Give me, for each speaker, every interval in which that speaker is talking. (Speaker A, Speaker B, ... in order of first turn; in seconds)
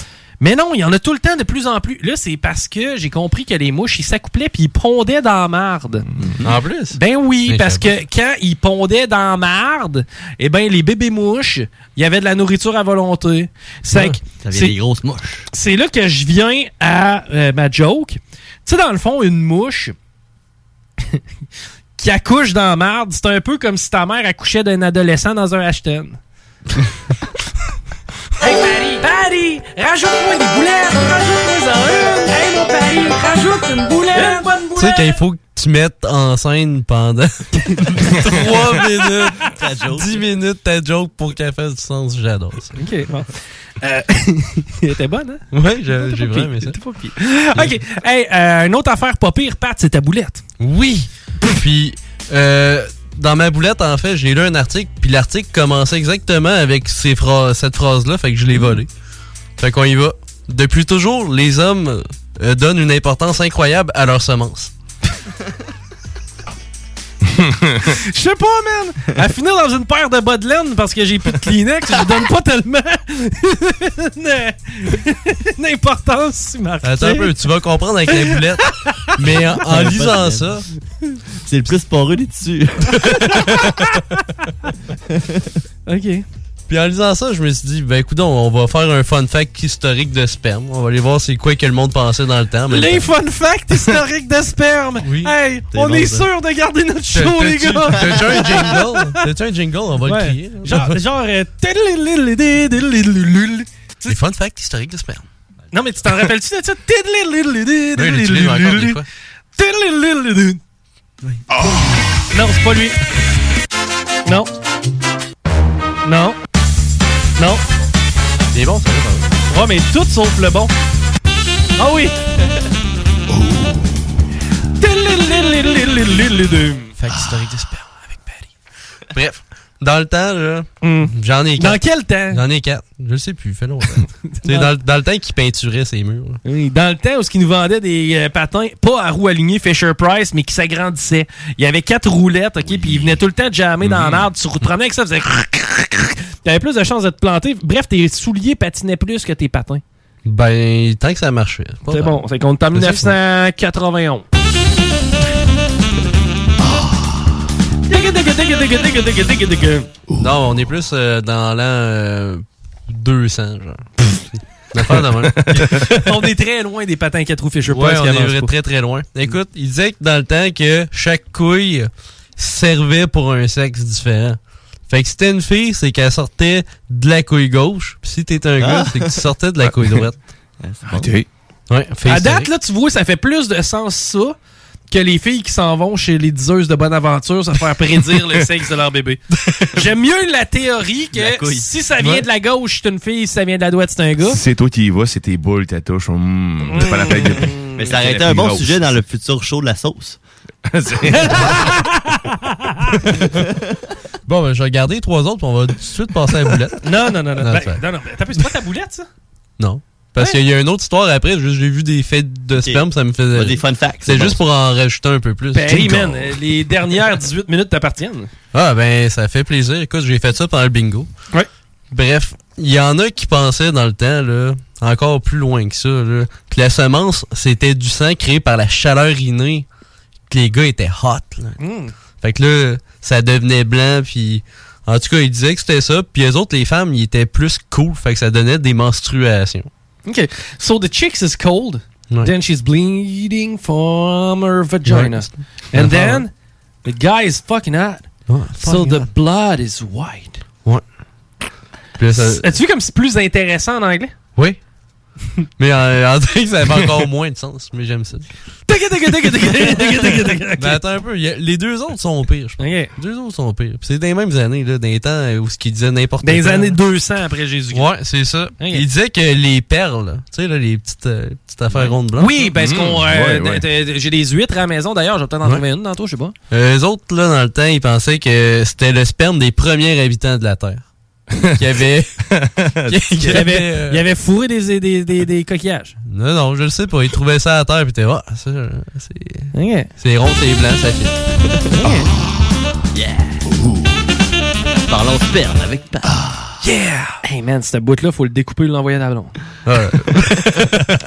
Speaker A: 0.4-6.0, 6.9-14.8, 15.5-19.9, 22.0-26.2, 28.4-35.1, 42.8-50.4, 67.9-77.3, 83.5-83.8, 85.8-86.2, 92.7-99.2, 100.0-104.1, 105.7-109.0, 109.5-110.6, 112.3-113.0, 116.0-116.4, 117.4-117.6, 119.5-120.7, 121.8-122.2, 124.8-126.9, 130.8-132.4, 134.3-134.7, 136.4-149.8, 151.9-154.2, 157.9-159.9, 165.7-168.5, 182.1-184.3, 184.9-189.2, 189.7-194.4, 196.7-197.7, 201.1-203.0, 206.8-209.1, 215.5-218.3, 231.6-231.9, 240.1-246.3, 246.8-248.1, 248.6-250.4, 252.1-254.1, 258.7-260.8, 262.6-262.9, 266.2-267.9, 268.6-268.8, 271.8-276.3, 283.3-285.9, 289.5-289.9, 291.7-292.1, 296.6-299.3
Speaker B: 6.4-7.9, 34.8-42.7, 45.5-46.8, 50.6-58.9, 59.6-64.7, 76.8-80.6, 86.7-93.1, 95.0-95.3, 97.1-101.0, 104.0-105.2, 108.0-109.0, 118.5-119.2, 127.0-128.4, 129.1-136.4, 150.2-152.2, 152.7-153.2, 160.2-165.9, 167.7-180.2, 181.7-182.5, 204.2-206.8, 207.4-207.8, 209.6-216.3, 218.5-221.1, 221.9-229.7, 230.3-231.6, 232.2-239.7, 244.8-245.2, 245.7-246.2, 248.3-249.1, 252.0-252.5, 255.6-258.3, 259.4-266.8, 267.7-272.4, 276.5-280.9, 281.6-282.2, 282.9-284.0, 286.1-291.2, 299.6-300.7
Speaker C: 14.2-15.4, 39.5-40.2, 79.6-80.6, 81.3-83.8, 85.1-85.4, 95.7-96.3, 178.6-179.3, 180.6-181.1, 191.1-191.7, 197.8-200.2, 212.6-214.4, 294.9-296.2
Speaker D: 67.4-67.7, 123.3-123.9, 165.4-165.8, 180.8-181.3, 194.2-198.8, 200.7-201.6, 272.5-273.6, 281.4-281.6, 282.3-283.5, 291.8-292.1, 293.5-293.9